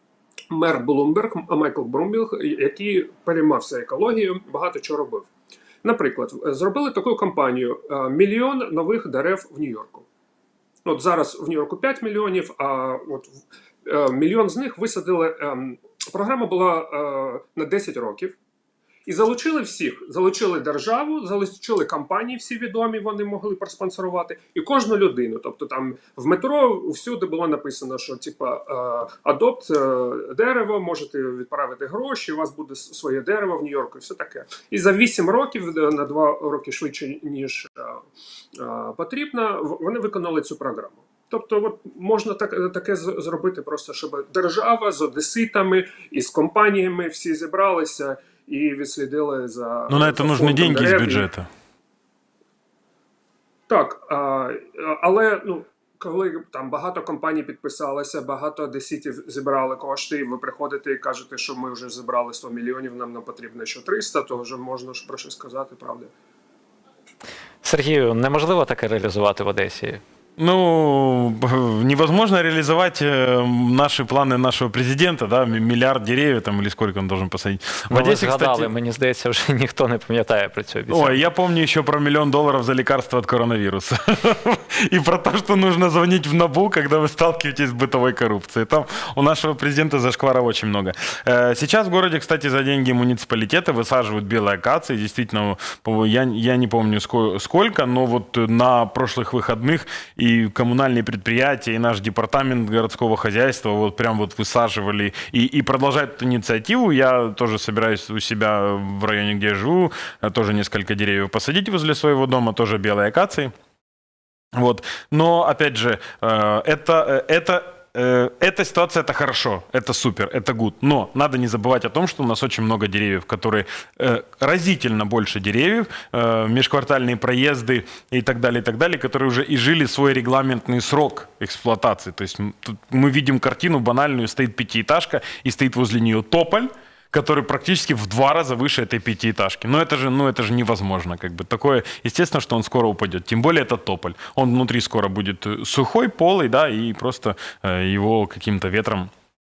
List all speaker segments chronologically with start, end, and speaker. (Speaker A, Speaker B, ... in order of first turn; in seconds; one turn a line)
Speaker A: 0.5-5.3
Speaker A: 5.8-10.1
Speaker A: 10.8-18.4
Speaker A: 19.1-51.3
Speaker B: 49.9-51.5
Speaker A: 53.7-66.1
Speaker C: 67.6-70.0
Speaker B: 70.4-78.7
Speaker C: 77.9-81.2
Speaker B: 80.9-113.5
Speaker B: 114.5-149.1